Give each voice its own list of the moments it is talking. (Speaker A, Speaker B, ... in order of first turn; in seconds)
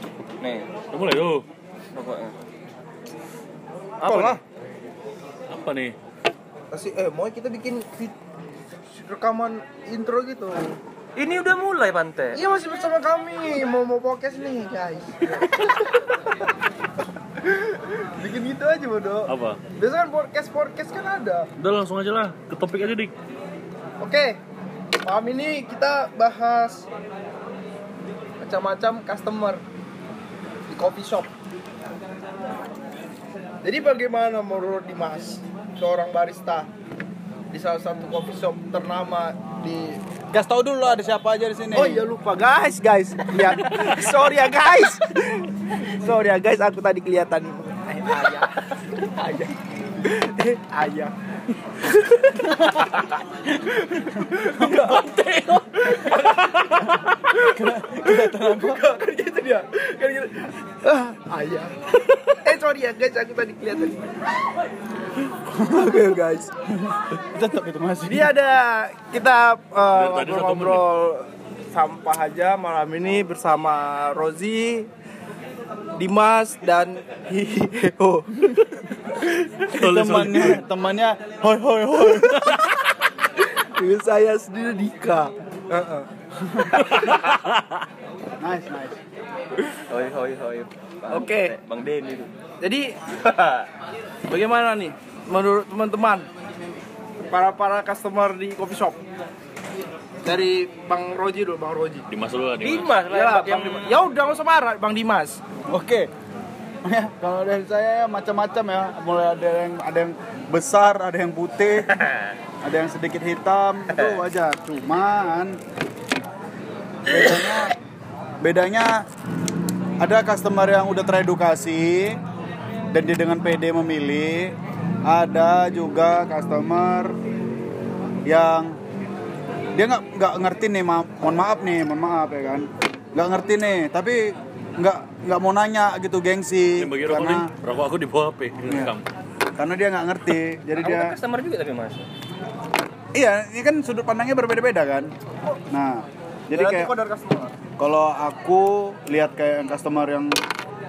Speaker A: 0.4-0.7, 1.9-2.3, 4.1-4.4, 11.2-12.4, 86.9-87.2, 89.9-92.3, 93.2-93.7, 102.6-104.0, 111.9-112.3, 113.9-114.2, 140.8-142.1
Speaker B: 0.9-1.5, 4.1-4.3, 5.5-6.0, 19.3-19.6, 21.6-23.1, 55.1-55.6, 56.2-56.5, 69.9-70.9, 79.7-80.6, 87.0-87.6, 102.1-103.0, 136.8-139.1
Speaker C: 4.0-4.4, 6.7-8.2, 8.9-10.8, 12.3-16.3, 17.4-21.5, 24.0-24.4, 25.0-26.9, 28.4-29.6, 30.7-31.3, 33.6-36.7, 37.5-40.0, 41.7-51.1, 51.8-64.0, 65.3-66.5, 68.0-74.9, 76.0-79.3, 83.2-86.1, 91.1-91.5, 92.6-93.1, 94.3-96.3, 97.3-99.0, 100.2-102.1, 103.1-105.4, 146.5-147.5
Speaker D: 40.3-42.1, 54.2-55.2, 57.4-58.8, 66.7-68.3, 79.7-82.6, 88.4-89.0, 105.7-106.1, 106.8-111.9, 112.6-115.6, 117.1-117.8, 118.4-119.0, 120.0-122.2, 122.9-127.2, 128.2-128.8, 129.8-137.5, 138.7-138.9, 139.6-141.2, 143.1-145.1, 145.7-146.9, 147.8-150.4